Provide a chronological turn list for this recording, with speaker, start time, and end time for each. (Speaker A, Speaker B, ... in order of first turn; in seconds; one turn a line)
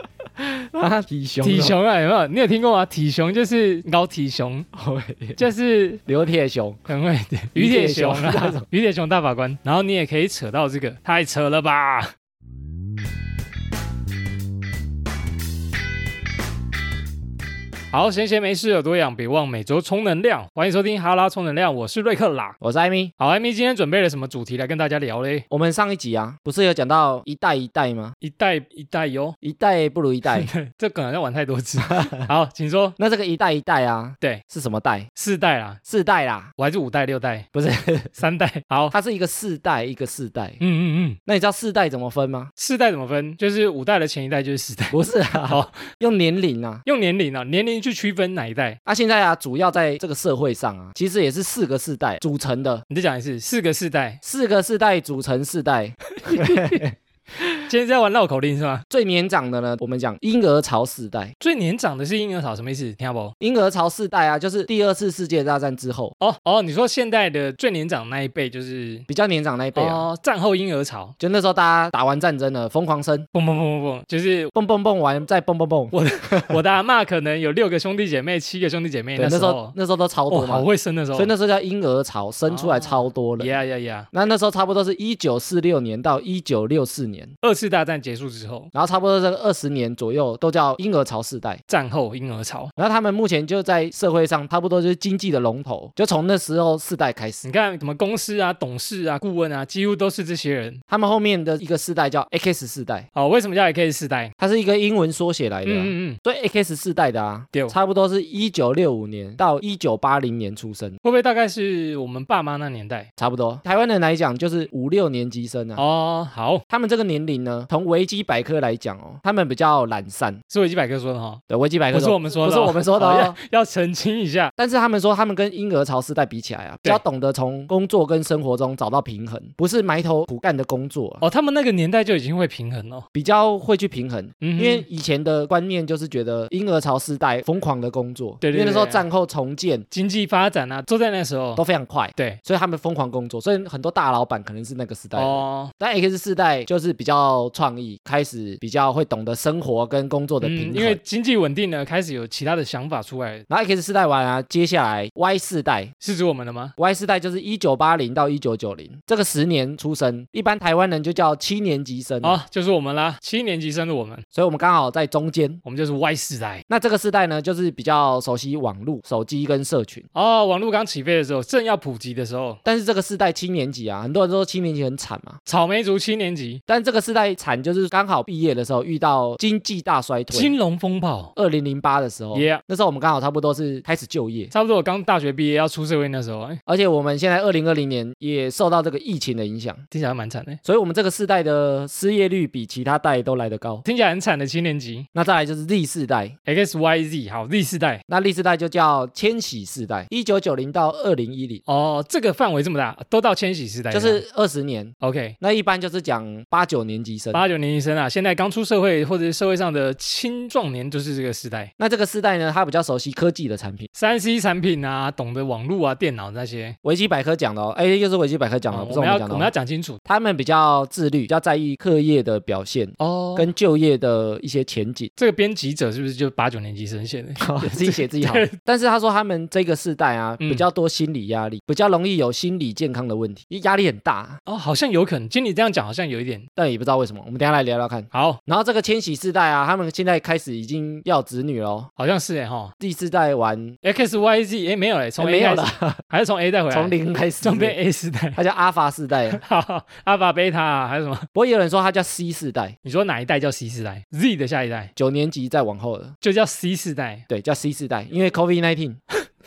Speaker A: 0.4-1.8
Speaker B: 1.4-4.7
Speaker A: 4.7-5.4
Speaker B: 5.4-6.0
Speaker A: 6.0-6.8
Speaker B: 6.9-12.1
Speaker A: 7.5-8.7
Speaker B: 17.9-22.6
Speaker A: 22.6-23.1
Speaker B: 23.2-25.4
Speaker A: 25.5-28.1
Speaker B: 28.2-29.4
Speaker A: 29.4-30.5
Speaker B: 30.3-33.0
Speaker A: 33.0-35.1
Speaker B: 35.1-35.8
Speaker A: 35.9-36.5
Speaker B: 36.6-37.5
Speaker A: 37.5-38.1
Speaker B: 38.1-38.9
Speaker A: 38.9-40.6
Speaker B: 40.6-41.2
Speaker A: 41.2-42.5
Speaker B: 42.6-45.8
Speaker A: 44.9-46.8
Speaker B: 46.8-48.8
Speaker A: 48.9-52.8
Speaker B: 52.9-54.2
Speaker A: 54.2-56.9
Speaker B: 56.1-56.8
Speaker B: 57.6-58.8
Speaker A: 58.9-61.3
Speaker B: 61.4-63.3
Speaker A: 63.4-66.1
Speaker B: 66.2-69.1
Speaker A: 69.1-70.0
Speaker B: 69.7-71.1
Speaker A: 71.2-73.3
Speaker B: 73.3-74.5
Speaker A: 74.5-76.6
Speaker B: 75.9-79.7
Speaker A: 79.2-83.6
Speaker B: 80.3-81.3
Speaker B: 82.5-84.1
Speaker A: 84.1-87.3
Speaker B: 87.4-88.7
Speaker A: 88.7-91.6
Speaker B: 91.7-92.7
Speaker A: 92.8-97.4
Speaker B: 97.4-100.8
Speaker A: 100.9-103.1
Speaker B: 103.1-104.3
Speaker A: 104.4-111.0
Speaker B: 105.6-106.2
Speaker B: 111.0-113.1
Speaker A: 113.2-115.8
Speaker B: 115.8-116.6
Speaker A: 116.7-120.4
Speaker B: 120.5-121.4
Speaker A: 121.5-123.4
Speaker B: 121.9-124.5
Speaker A: 124.6-131.2
Speaker B: 131.2-133.1
Speaker A: 133.1-139.8
Speaker B: 134.4-134.8
Speaker B: 138.4-139.1
Speaker B: 139.9-141.6
Speaker A: 141.6-151.0
Speaker B: 145.2-145.7
Speaker B: 150.4-153.4
Speaker A: 153.5-155.9
Speaker B: 156.0-156.7
Speaker A: 156.8-162.4
Speaker B: 162.2-164.2
Speaker A: 164.3-165.6
Speaker B: 165.6-166.6
Speaker A: 166.7-170.1
Speaker B: 170.1-172.6
Speaker A: 172.6-175.4
Speaker B: 175.4-176.6
Speaker A: 176.7-180.5
Speaker B: 180.3-181.3
Speaker A: 181.3-184.5
Speaker B: 182.3-182.6
Speaker B: 184.5-186.6
Speaker A: 186.7-189.8
Speaker B: 189.9-190.6
Speaker A: 190.6-193.8
Speaker B: 193.8-195.1
Speaker A: 195.1-196.3
Speaker B: 196.4-198.0
Speaker A: 198.1-201.6
Speaker B: 201.7-204.2
Speaker A: 203.9-207.4
Speaker B: 205.0-205.3
Speaker B: 207.3-211.7
Speaker A: 211.8-213.9
Speaker B: 213.9-216.8
Speaker A: 216.8-219.5
Speaker B: 218.7-220.0
Speaker A: 220.1-225.1
Speaker B: 223.0-223.5
Speaker B: 225.2-228.6
Speaker A: 227.4-234.4
Speaker B: 230.4-230.7
Speaker B: 234.4-236.4
Speaker A: 236.6-241.9
Speaker B: 238.1-238.4
Speaker B: 242.0-242.7
Speaker A: 242.8-243.8
Speaker B: 243.8-248.4
Speaker A: 245.2-246.0
Speaker A: 246.7-247.8
Speaker A: 248.3-249.4
Speaker B: 249.3-251.3
Speaker A: 251.3-252.7
Speaker B: 252.8-254.9
Speaker A: 255.0-256.1
Speaker B: 256.2-257.2
Speaker A: 257.3-259.0